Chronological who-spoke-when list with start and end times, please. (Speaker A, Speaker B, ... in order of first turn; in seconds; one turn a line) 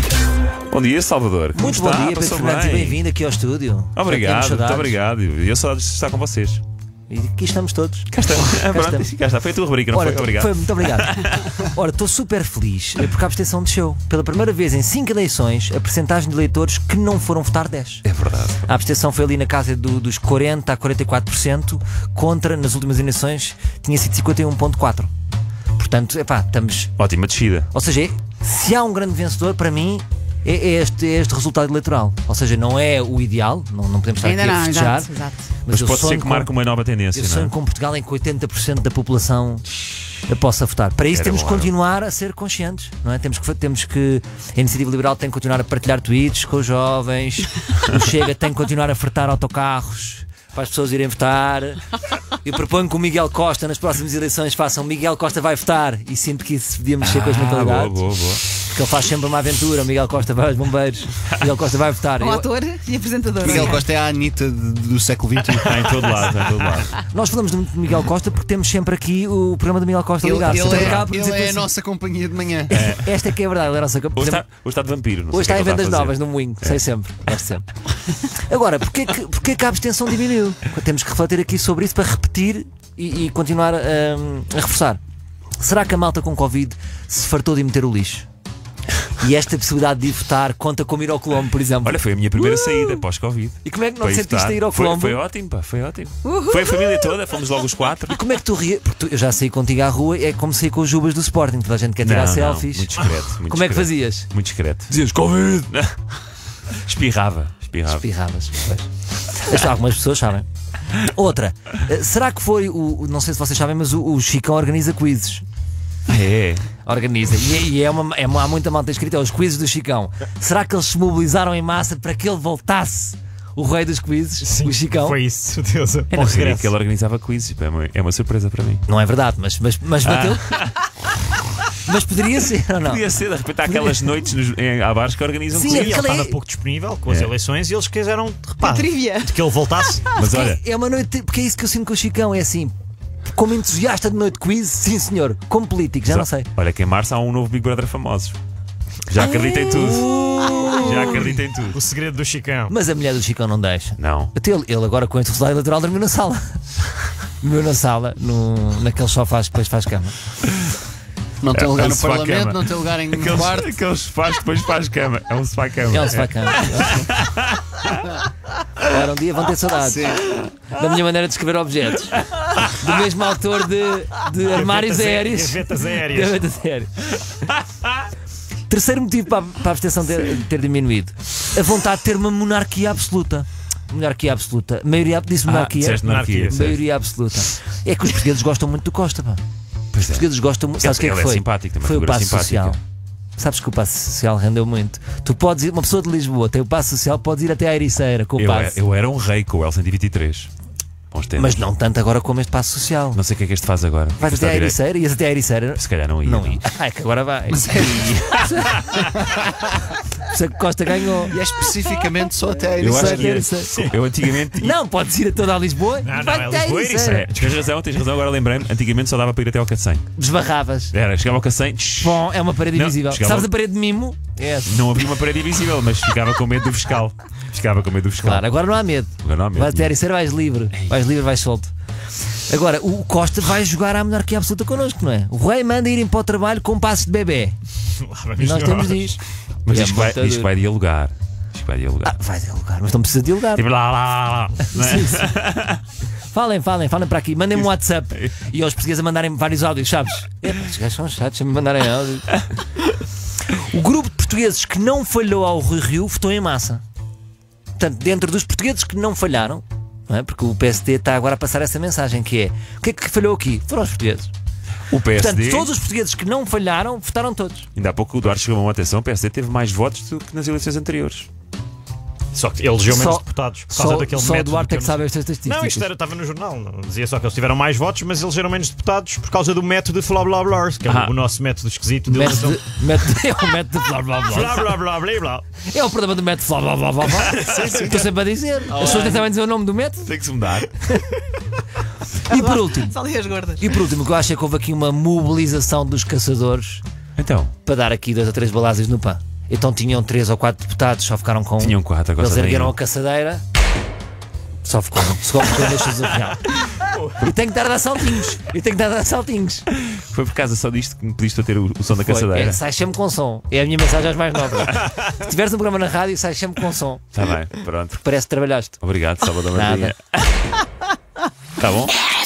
Speaker A: 0.7-3.0
Speaker B: 1.5-5.0
Speaker A: 3.9-6.6
Speaker B: 7.1-9.1
Speaker A: 8.1-11.5
Speaker B: 9.9-18.0
Speaker A: 18.0-18.6
Speaker B: 18.6-25.1
Speaker B: 25.8-26.9
Speaker A: 27.0-27.7
Speaker B: 27.7-36.5
Speaker C: 34.2-35.5
Speaker A: 35.7-37.5
Speaker B: 37.1-39.6
Speaker B: 40.3-58.0
Speaker A: 41.1-41.7
Speaker A: 57.0-58.4
Speaker B: 58.6-62.5
Speaker C: 62.2-63.8
Speaker D: 63.4-66.0
Speaker A: 65.6-67.0
Speaker B: 67.0-71.7
Speaker D: 70.2-72.7
Speaker A: 70.5-71.0
Speaker B: 72.7-74.5
Speaker A: 72.7-73.0
Speaker A: 74.1-76.8
Speaker B: 75.3-77.7
Speaker B: 78.2-85.0
Speaker B: 85.6-88.2
Speaker B: 89.2-92.0
Speaker A: 91.8-98.2
Speaker B: 93.6-95.2
Speaker C: 96.3-96.6
Speaker B: 98.1-102.9
Speaker A: 102.0-104.9
Speaker B: 103.4-104.3
Speaker B: 104.9-105.7
Speaker A: 105.7-106.2
Speaker A: 106.7-108.1
Speaker B: 107.9-115.4
Speaker A: 116.1-116.6
Speaker B: 116.8-125.2
Speaker E: 124.4-126.7
Speaker A: 126.1-128.8
Speaker B: 128.8-130.6
Speaker A: 130.0-130.9
Speaker B: 131.8-133.0
Speaker A: 132.8-136.0
Speaker B: 133.6-134.2
Speaker B: 135.5-136.4
Speaker E: 135.5-140.0
Speaker C: 138.6-139.3
Speaker A: 140.2-140.6
Speaker B: 140.2-142.7
Speaker B: 143.3-146.5
Speaker A: 146.0-148.3
Speaker A: 149.1-151.8
Speaker B: 149.3-151.3
Speaker E: 150.9-152.7
Speaker B: 152.7-156.7
Speaker A: 154.0-154.3
Speaker B: 157.4-160.2
Speaker D: 161.4-163.7
Speaker A: 161.5-168.2
Speaker B: 165.9-167.1
Speaker B: 168.8-177.3
Speaker D: 169.8-170.2
Speaker E: 174.4-176.5
Speaker B: 178.7-189.4
Speaker A: 185.5-186.8
Speaker E: 185.6-186.7
Speaker A: 189.9-192.8
Speaker B: 190.1-192.8
Speaker B: 193.3-198.8
Speaker A: 198.4-200.5
Speaker A: 201.1-201.7
Speaker B: 201.4-203.2
Speaker A: 203.1-204.8
Speaker B: 204.2-209.1
Speaker A: 205.8-206.6
Speaker A: 207.6-209.0
Speaker B: 210.2-211.3
Speaker D: 211.3-213.4
Speaker B: 212.8-213.8
Speaker A: 212.8-214.7
Speaker E: 213.7-213.9
Speaker B: 214.5-217.3
Speaker E: 216.0-217.5
Speaker A: 217.0-220.1
Speaker B: 220.2-220.9
Speaker A: 220.9-223.5
Speaker B: 222.0-224.9
Speaker A: 224.7-228.4
Speaker B: 228.2-231.7
Speaker A: 229.2-229.9
Speaker B: 232.3-237.6
Speaker E: 238.0-239.1
Speaker B: 238.4-240.5
Speaker A: 239.7-242.1
Speaker B: 242.0-243.6
Speaker A: 243.5-245.8
Speaker B: 244.7-245.3
Speaker B: 246.3-252.4
Speaker A: 247.5-248.3
Speaker B: 253.5-256.8
Speaker B: 257.8-264.3
Speaker A: 264.9-265.7
Speaker B: 265.1-267.7
Speaker A: 267.7-271.3
Speaker E: 272.3-282.7
Speaker B: 272.9-275.9
Speaker A: 280.8-281.1
Speaker B: 282.1-284.7
Speaker E: 284.2-285.4
Speaker B: 285.6-290.1
Speaker D: 287.4-288.1
Speaker A: 287.6-287.9
Speaker D: 288.7-289.1
Speaker E: 288.8-289.2
Speaker A: 290.0-290.8
Speaker B: 290.8-291.1
Speaker B: 292.1-296.8
Speaker C: 292.3-293.6
Speaker A: 297.2-297.5
Speaker B: 297.6-303.4
Speaker A: 301.6-302.8
Speaker B: 304.6-306.4
Speaker B: 307.1-309.6
Speaker A: 309.7-312.6
Speaker B: 311.9-317.0
Speaker A: 317.1-318.0
Speaker B: 318.0-318.8
Speaker A: 318.8-320.5
Speaker B: 319.5-319.9
Speaker A: 321.6-322.0